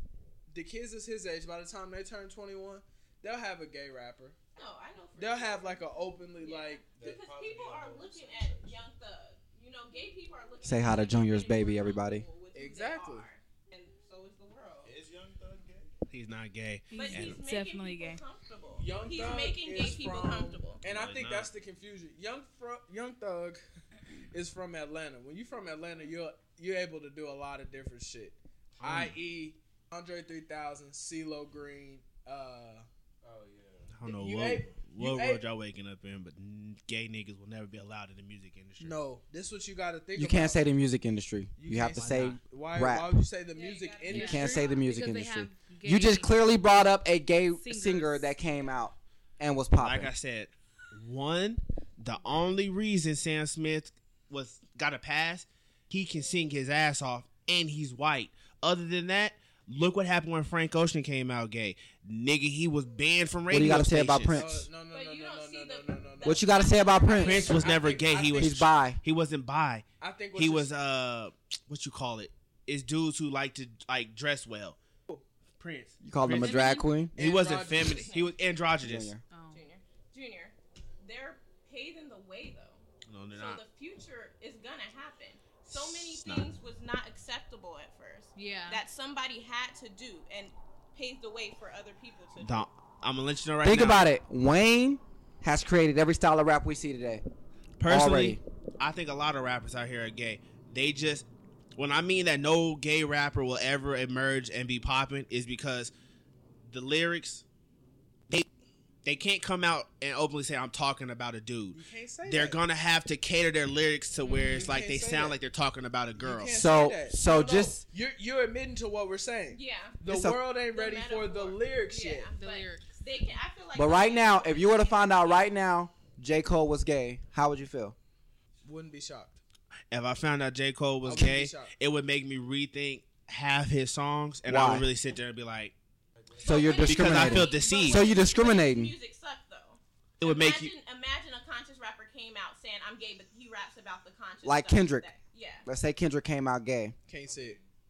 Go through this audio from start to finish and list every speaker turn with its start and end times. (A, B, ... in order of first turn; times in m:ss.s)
0:00.5-0:04.4 A
0:04.6-0:14.9 B
0:05.2-0:06.9 A
0:06.9-0:08.8 C
0:10.6-0:12.3 D
0:12.6-0:13.3 A
0:14.8-0:15.9 C
0:16.1-0:17.4 E
0:16.9-0:18.2 F
0:16.9-0:20.8 B
0:18.8-0:23.6 A
0:20.8-0:21.5 E
0:24.3-0:32.9 A
0:28.8-0:29.2 E
0:33.2-0:34.0 C
0:33.9-0:39.0 E
0:34.1-0:35.4 A
0:38.8-0:40.6 A
0:40.2-0:43.2 D
0:41.6-0:44.7 A
0:41.9-0:42.4 E
0:43.5-0:45.1 B
0:44.1-0:46.4 F
0:44.1-0:50.1 D
0:47.5-0:48.6 F
0:49.8-1:04.4 E
1:03.5-1:04.7 D
1:03.6-1:08.7 A
1:04.9-1:07.8 B
1:06.2-1:07.6 D
1:07.2-1:14.8 E
1:08.4-1:09.0 D
1:10.0-1:10.7 A
1:15.6-1:19.1 E
1:16.0-1:17.1 D
1:16.3-1:16.9 F
1:17.2-1:18.2 A
1:17.9-1:18.3 B
1:18.8-1:19.2 D
1:19.3-1:19.6 F
1:19.5-1:32.7 B
1:23.1-1:23.6 E
1:25.7-1:26.5 E
1:28.4-1:28.8 F
1:32.4-1:34.1 E
1:33.6-1:37.2 D
1:37.8-1:45.9 E
1:37.9-1:38.4 D
1:46.6-1:47.4 E
1:49.0-1:56.6 E
1:51.7-1:52.6 A
1:54.2-1:54.7 F
1:54.3-1:55.4 A
1:56.2-2:02.3 A
1:56.5-1:57.8 D
1:59.5-2:00.0 B
2:00.0-2:00.4 D
2:00.7-2:05.5 B
2:02.4-2:03.0 F
2:03.8-2:08.0 D
2:08.6-2:09.4 A
2:09.9-2:15.8 E
2:11.0-2:11.7 A
2:14.5-2:14.9 D
2:16.2-2:16.9 C
2:16.4-2:25.7 B
2:16.4-2:18.9 D
2:16.8-2:18.0 E
2:17.2-2:17.4 F
2:20.2-2:20.7 E
2:24.4-2:25.1 D
2:25.7-2:27.0 D
2:27.1-2:27.6 A
2:27.3-2:27.6 C